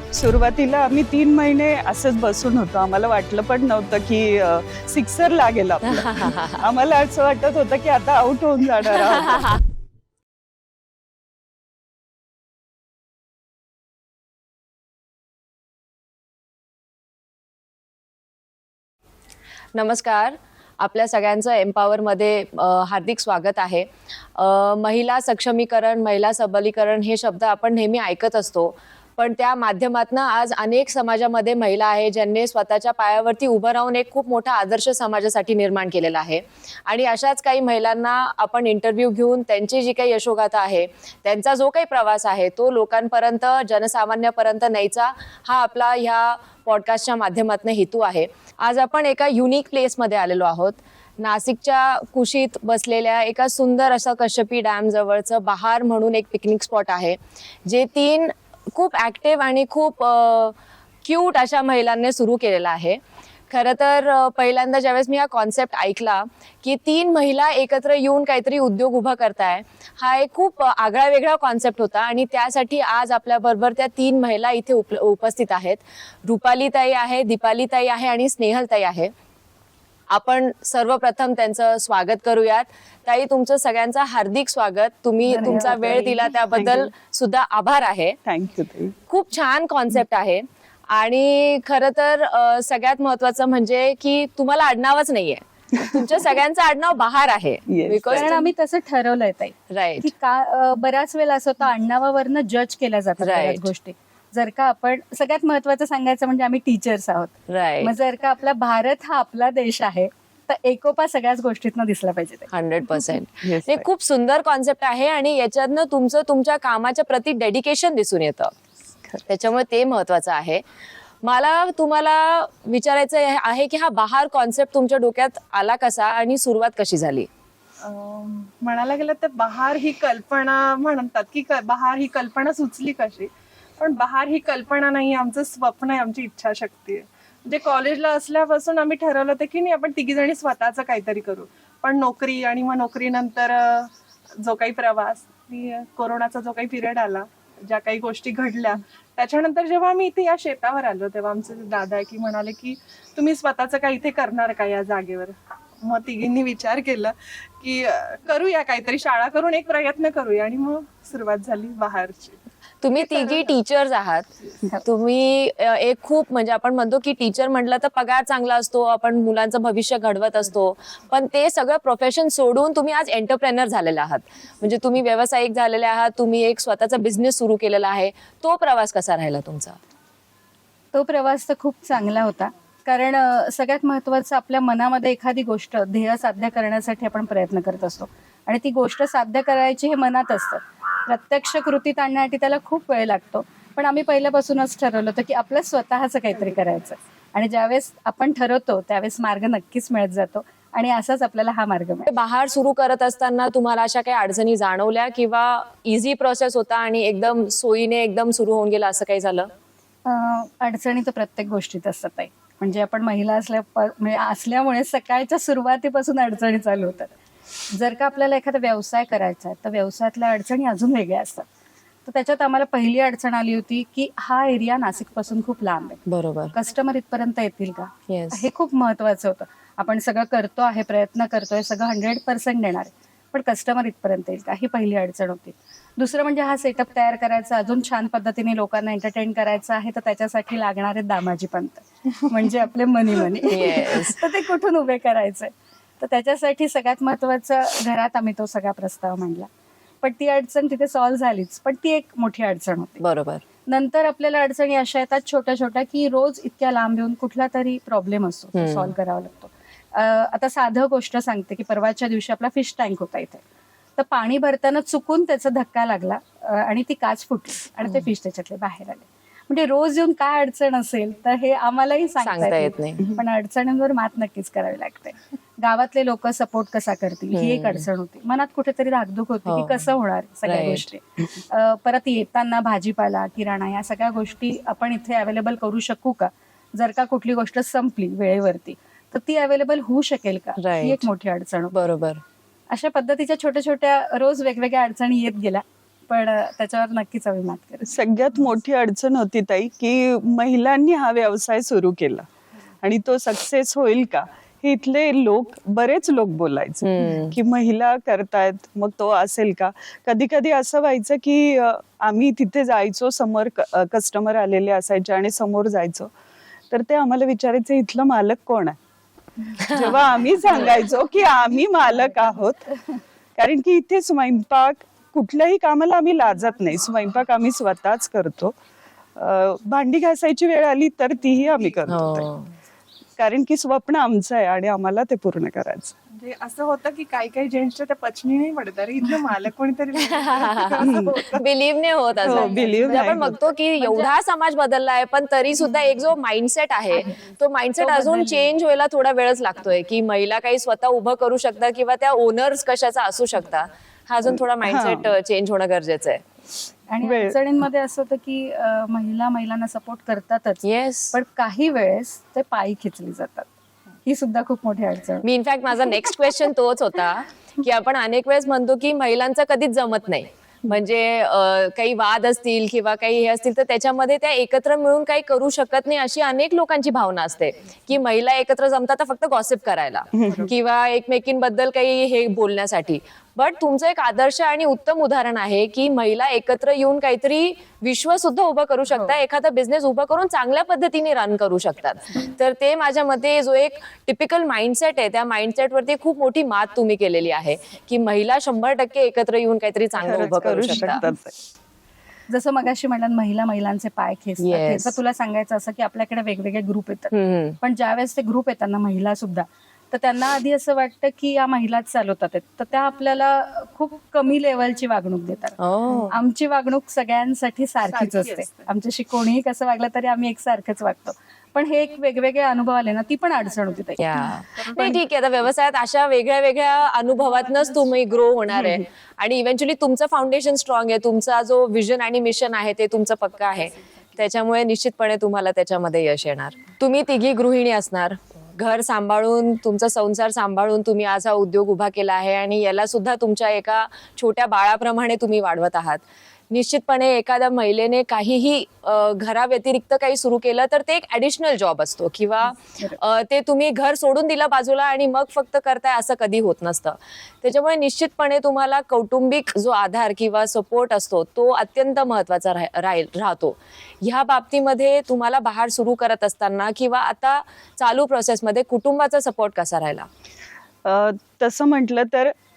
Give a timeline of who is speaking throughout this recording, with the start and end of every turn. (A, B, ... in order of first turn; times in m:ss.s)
0:00.1-0:09.6 A
0:05.8-0:06.6 B
0:19.8-1:03.0 B
1:03.5-1:19.1 B
1:20.1-1:28.2 B
1:25.2-1:26.4 C
1:26.5-1:26.9 A
1:28.2-1:29.0 A
1:29.1-1:38.5 B
1:35.8-1:36.2 A
1:37.7-1:38.3 A
1:38.1-1:52.5 C
1:39.7-1:40.1 B
1:43.2-1:43.7 B
1:47.5-1:47.9 B
1:52.5-1:58.5 B
1:53.4-1:53.9 A
1:59.1-2:00.6 B
2:01.2-2:07.3 B
2:07.8-2:42.4 D
2:42.8-2:44.3 B
2:43.0-2:43.6 D
2:44.8-2:59.8 B
3:00.9-3:22.1 C
3:22.1-3:29.5 B
3:30.0-3:37.1 C
3:37.7-3:41.5 C
3:42.1-4:09.5 C
3:46.1-3:46.6 B
3:48.1-3:48.4 B
4:03.4-4:04.2 B
4:10.0-4:13.0 C
4:13.0-4:13.4 B
4:13.7-4:23.4 C
4:18.6-4:18.9 B
4:24.0-4:51.8 C
4:32.2-4:33.0 B
4:37.3-4:37.9 B
4:39.4-4:39.8 B
4:40.4-4:40.9 B
4:50.6-4:51.1 B
4:51.7-4:52.2 B
4:52.7-4:58.0 C
4:57.9-5:02.3 A
5:02.8-5:16.1 A
5:06.8-5:07.4 B
5:16.7-5:18.8 A
5:19.6-5:19.9 B
5:19.7-5:22.7 A
5:23.4-5:28.6 A
5:29.2-5:32.3 A
5:31.5-5:31.8 D
5:31.9-5:32.5 B
5:33.2-5:36.0 A
5:36.1-5:41.4 D
5:40.1-5:56.2 B
5:40.8-5:41.4 C
5:40.8-5:41.1 A
5:42.2-5:44.1 C
5:42.2-5:43.4 A
5:47.8-5:48.4 C
5:54.3-5:55.1 A
5:56.9-6:03.5 C
5:57.0-5:57.4 A
6:00.6-6:01.2 B
6:04.1-6:05.3 C
6:05.2-6:41.0 B
6:20.1-6:20.5 A
6:40.0-6:41.4 A
6:40.7-6:41.0 C
6:42.3-7:04.3 C
6:44.4-6:45.0 B
6:47.1-6:47.6 B
6:55.6-6:56.2 B
6:57.8-6:58.7 D
7:04.0-7:50.1 B
7:04.6-7:05.0 D
7:07.2-7:07.9 D
7:08.5-7:08.8 A
7:32.6-7:33.0 C
7:50.8-7:52.3 A